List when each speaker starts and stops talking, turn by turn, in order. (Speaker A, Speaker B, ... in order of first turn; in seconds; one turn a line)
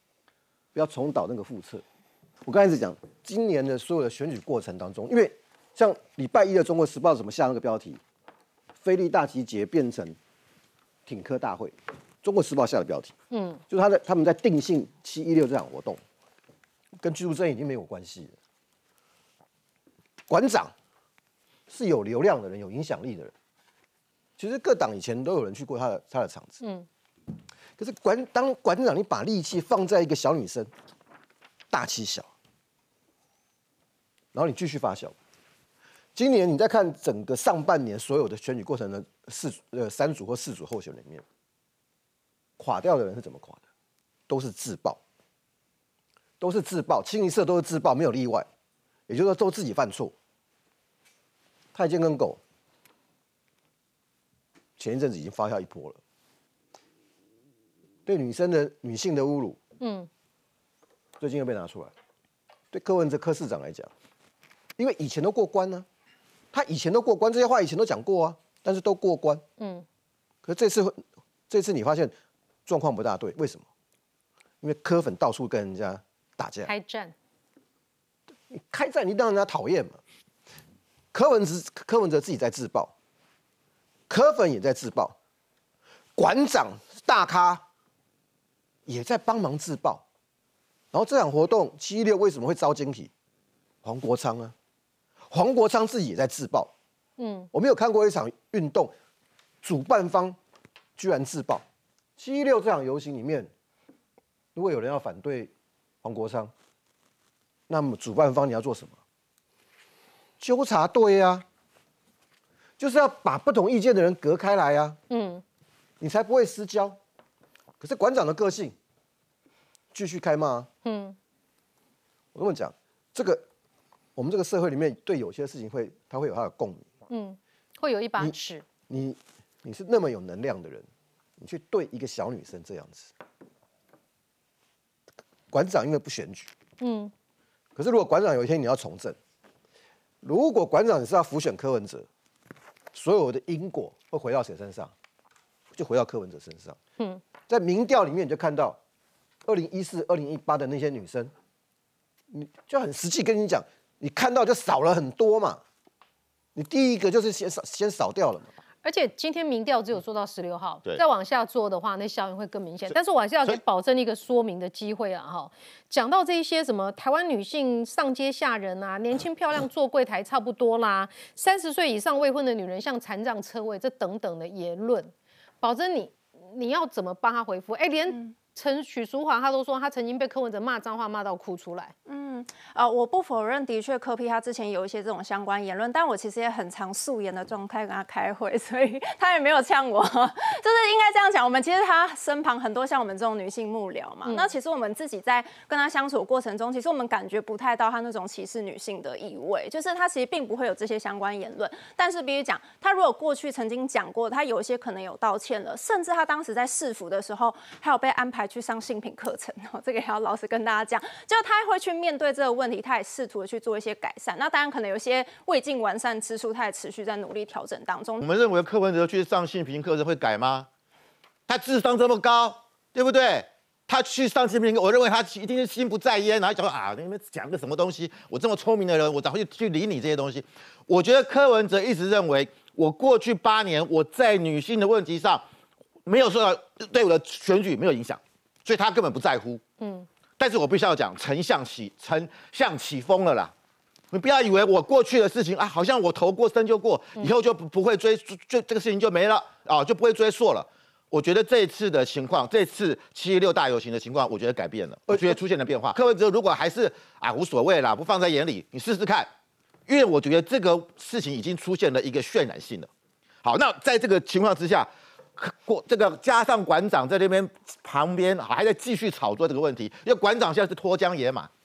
Speaker A: 0.7-1.8
Speaker A: 2.4-8.0
Speaker A: 8.8-10.2
Speaker A: 11.1-13.2
Speaker B: 13.3-13.6
Speaker A: 13.7-16.0
Speaker A: 17.0-18.4
Speaker A: 20.3-20.7
Speaker A: 21.7-23.3
Speaker A: 24.4-26.6
Speaker B: 26.6-26.9
Speaker A: 27.8-30.7
Speaker A: 31.7-32.3
Speaker A: 34.3-35.2
Speaker A: 36.1-41.2
Speaker A: 42.6-43.6
Speaker A: 44.3-45.0
Speaker A: 46.4-48.5
Speaker A: 49.1-50.1
Speaker A: 51.7-52.4
Speaker A: 54.8-56.0
Speaker A: 58.1-59.6
Speaker B: 59.8-60.1
Speaker A: 61.2-61.9
Speaker A: 62.7-63.9
Speaker A: 64.8-65.9
Speaker A: 66.5-69.4
Speaker B: 69.6-69.8
Speaker A: 70.4-72.1
Speaker A: 72.7-73.7
Speaker A: 74.6-76.7
Speaker B: 76.7-77.1
Speaker A: 78.5-80.0
Speaker A: 81.1-82.9
Speaker A: 84.1-85.2
Speaker A: 86.2-87.6
Speaker A: 88.9-90.0
Speaker A: 90.9-93.1
Speaker A: 93.8-94.5
Speaker A: 95.3-96.7
Speaker B: 97.2-97.5
Speaker A: 97.5-98.9
Speaker A: 99.6-100.4
Speaker A: 101.0-101.6
Speaker A: 102.2-103.5
Speaker A: 104.5-105.5
Speaker A: 106.0-106.5
Speaker A: 107.7-109.0
Speaker A: 110.4-111.5
Speaker A: 112.8-115.0
Speaker B: 115.1-115.4
Speaker A: 116.0-117.0
Speaker A: 117.8-118.8
Speaker A: 119.9-120.7
Speaker B: 120.8-121.2
Speaker A: 122.3-123.4
Speaker A: 124.2-126.9
Speaker B: 127.1-128.6
Speaker A: 128.9-130.9
Speaker A: 131.4-133.1
Speaker A: 135.5-136.5
Speaker B: 136.8-137.1
Speaker A: 137.8-139.2
Speaker A: 140.2-142.1
Speaker A: 142.9-144.9
Speaker A: 145.7-146.8
Speaker A: 147.5-148.8
Speaker A: 149.5-151.3
Speaker A: 152.3-155.6
Speaker A: 156.6-158.5
Speaker B: 158.8-175.1
Speaker B: 175.6-181.9
Speaker C: 182.1-218.2
Speaker D: 218.2-220.7
Speaker D: 221.5-235.4
Speaker D: 236.1-239.6
Speaker B: 239.8-240.1
Speaker D: 240.4-243.5
Speaker D: 244.1-259.3
Speaker D: 259.9-262.9
Speaker D: 263.4-271.5